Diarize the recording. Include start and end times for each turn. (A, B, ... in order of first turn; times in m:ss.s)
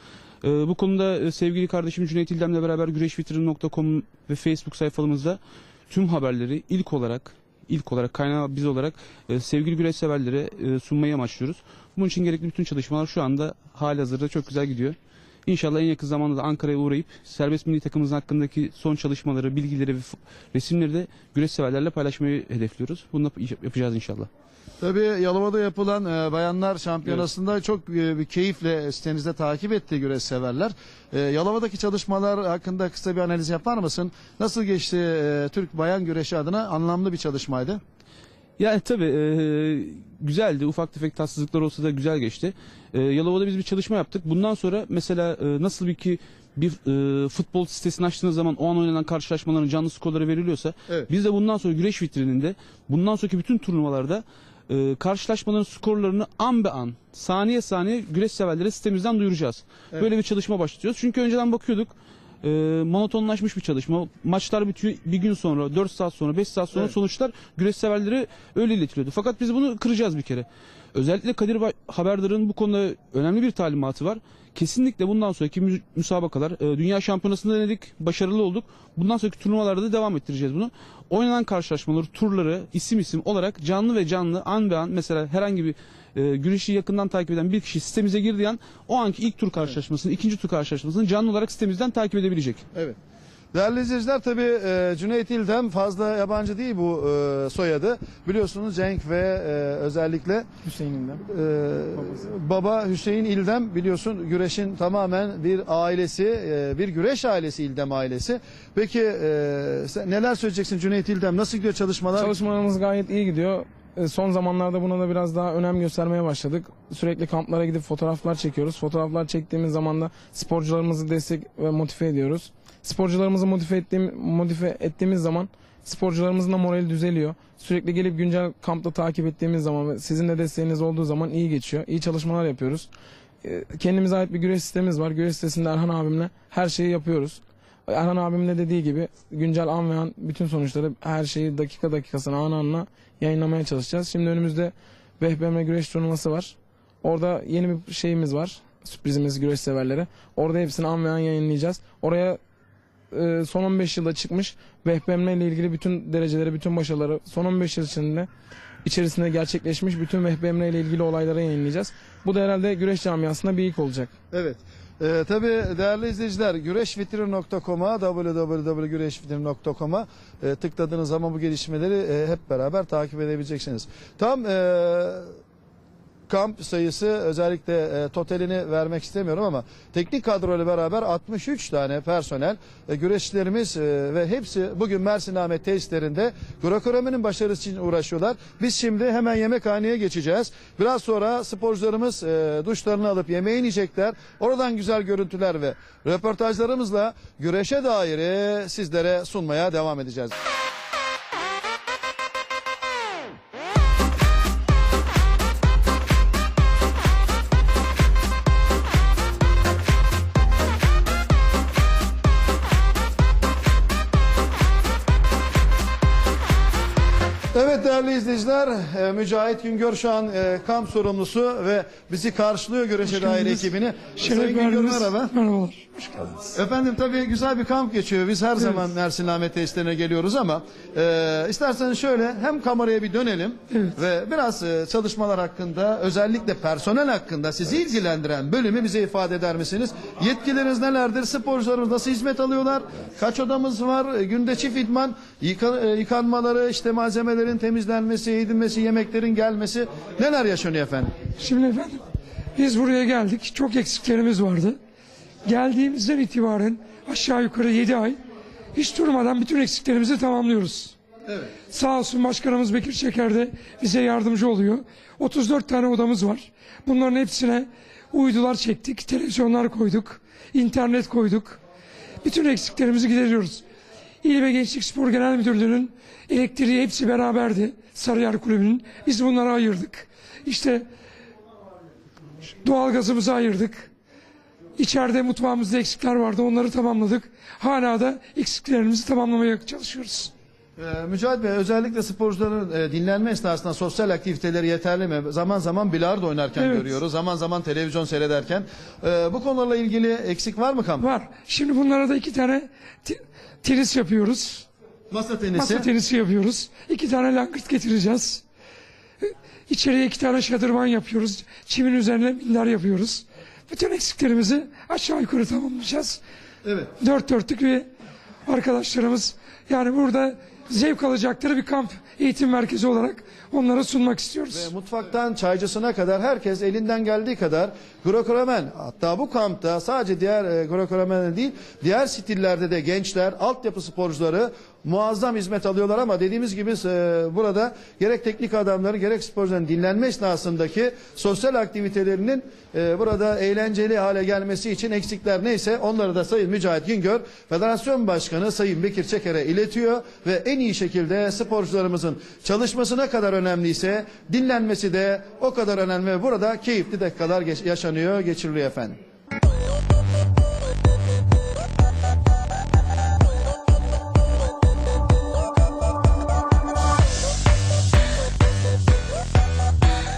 0:00.4-0:05.4 A
0:05.9-0:24.3 A
0:24.8-0:37.8 B
0:38.6-1:32.6 A
1:33.5-1:40.5 B
1:40.6-1:41.2 C
1:41.2-1:52.3 B
1:52.1-2:12.9 C
2:13.4-2:32.4 C
2:33.1-2:38.3 C
2:38.8-2:44.1 C
2:44.3-2:55.3 B
2:56.3-3:20.3 B
3:37.5-3:45.3 B
3:43.0-3:46.4 D
3:46.5-4:11.1 B
4:11.4-4:12.0 D
4:12.6-4:14.8 D
4:15.4-4:18.2 D
4:18.7-4:20.9 D
4:21.7-4:31.6 D
4:32.2-4:33.6 D
4:34.2-4:40.8 D
4:42.6-4:43.9 D
4:44.8-4:50.3 D
4:50.8-5:01.0 B
4:56.6-4:57.0 D
5:01.0-5:04.6 D
5:05.1-5:05.9 B
5:05.5-5:08.4 D
5:09.2-5:16.2 D
5:16.6-5:16.9 B
5:17.0-5:17.9 D
5:18.5-5:24.7 D
5:24.5-5:59.0 B